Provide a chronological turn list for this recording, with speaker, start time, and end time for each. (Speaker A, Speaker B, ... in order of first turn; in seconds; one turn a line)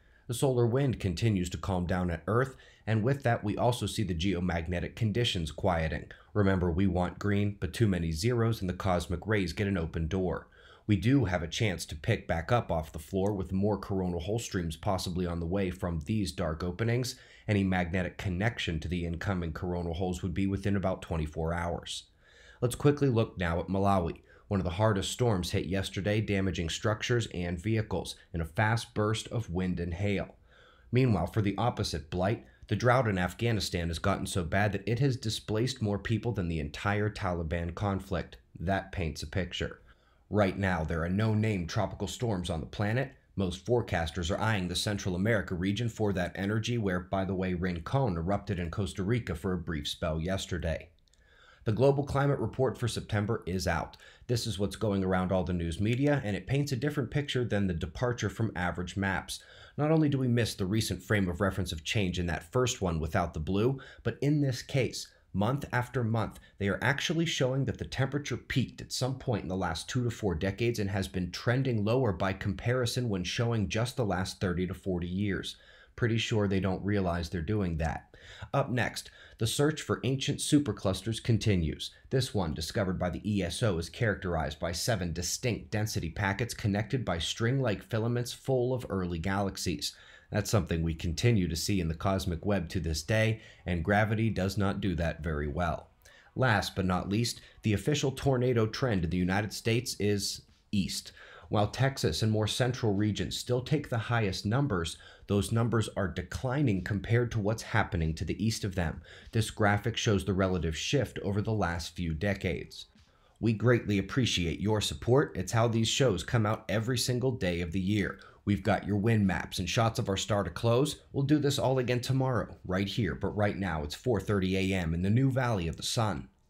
Speaker A: 0.3-22.1
Speaker A: 22.6-30.4
Speaker A: 30.9-50.9
Speaker A: 51.6-112.9
Speaker A: 113.4-126.3